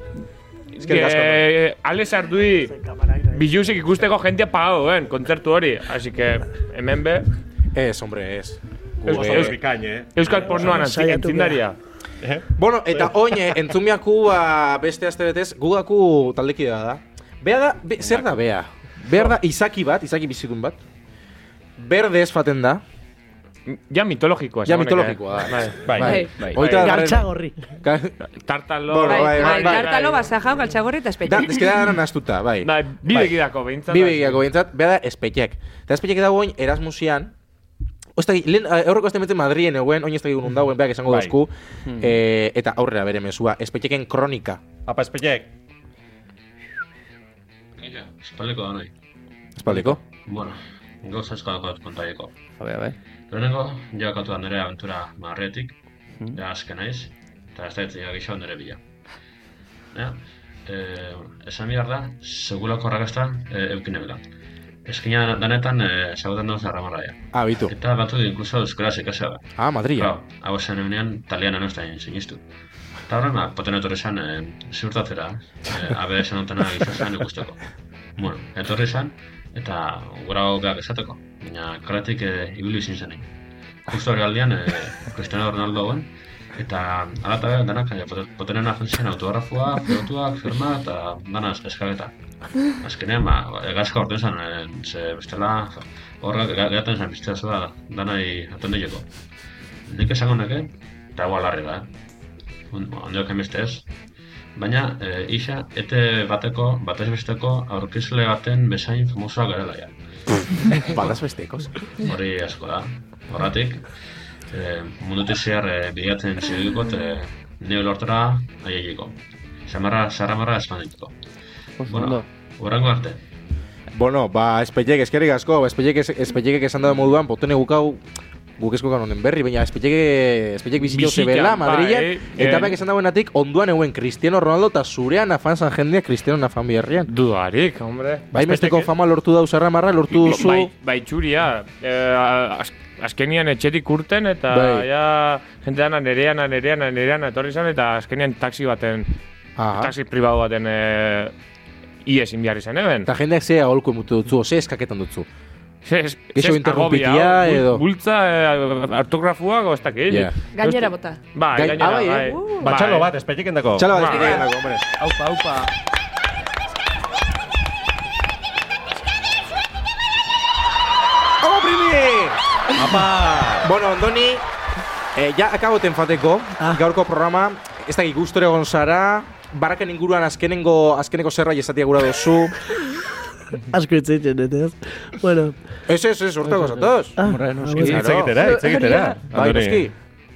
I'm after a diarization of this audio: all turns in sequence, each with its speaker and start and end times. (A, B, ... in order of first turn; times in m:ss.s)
0:00.7-0:02.7 A
0:00.8-0:01.5 B
0:02.8-0:03.4 C
0:03.3-0:07.3 A
0:07.7-0:09.6 B
0:09.1-0:09.6 A
0:09.1-0:10.7 D
0:10.1-0:11.8 A
0:10.5-0:11.6 C
0:12.6-0:20.8 B
0:18.0-0:18.3 D
0:21.8-0:22.8 B
0:23.7-0:27.1 A
0:24.7-0:27.3 B
0:25.9-0:26.3 D
0:26.0-0:26.5 E
0:26.7-0:27.6 C
0:27.8-0:28.2 B
0:28.4-0:30.2 A
0:28.9-0:30.1 B
0:29.0-0:31.7 E
0:31.2-0:32.7 B
0:32.6-0:34.4 A
0:33.9-0:37.3 B
0:38.2-0:44.6 B
0:41.1-0:41.3 D
0:41.9-0:42.2 F
0:44.9-0:45.5 D
0:47.8-0:48.9 G
0:49.6-0:50.0 B
0:50.1-0:52.4 G
0:52.6-0:53.0 F
0:53.3-0:55.8 G
0:56.3-0:58.8 G
0:59.9-1:04.2 G
1:04.8-1:12.4 G
1:07.3-1:07.7 B
1:09.6-1:10.1 B
1:13.1-1:17.6 G
1:18.2-1:23.3 G
1:23.9-1:32.1 G
1:32.8-1:39.1 G
1:39.9-1:41.9 G
1:42.7-1:43.9 G
1:44.6-1:50.0 G
1:50.7-1:51.7 B
1:52.0-1:53.9 G
1:54.5-2:01.2 G
2:01.8-2:02.2 F
2:01.8-2:03.2 G
2:03.9-2:08.0 B
2:08.6-2:17.1 B
2:10.9-2:12.8 A
2:17.1-2:18.3 A
2:18.3-2:20.7 B
2:18.4-2:18.9 D
2:20.2-2:29.1 A
2:24.5-2:24.9 B
2:29.6-2:29.9 B
2:29.7-2:31.3 A
2:32.0-2:33.1 A
2:33.1-2:35.3 B
2:35.8-2:40.3 A
2:36.3-2:37.8 B
2:40.1-2:40.3 B
2:40.5-2:41.2 E
2:41.3-2:43.1 A
2:41.6-2:42.4 B
2:42.2-2:42.7 E
2:42.6-2:44.0 D
2:43.8-2:44.8 B
2:43.9-2:44.4 A
2:44.1-2:44.4 E
2:45.0-2:45.7 F
2:51.4-2:52.4 B
2:52.8-2:53.7 D
2:53.6-2:54.4 B
2:55.2-3:02.6 B
3:03.7-3:05.5 C
3:05.9-3:07.2 B
3:06.4-3:08.1 F
3:07.2-3:08.1 C
3:07.8-3:09.9 D
3:07.8-3:08.4 B
3:08.4-3:09.2 E
3:09.3-3:09.9 B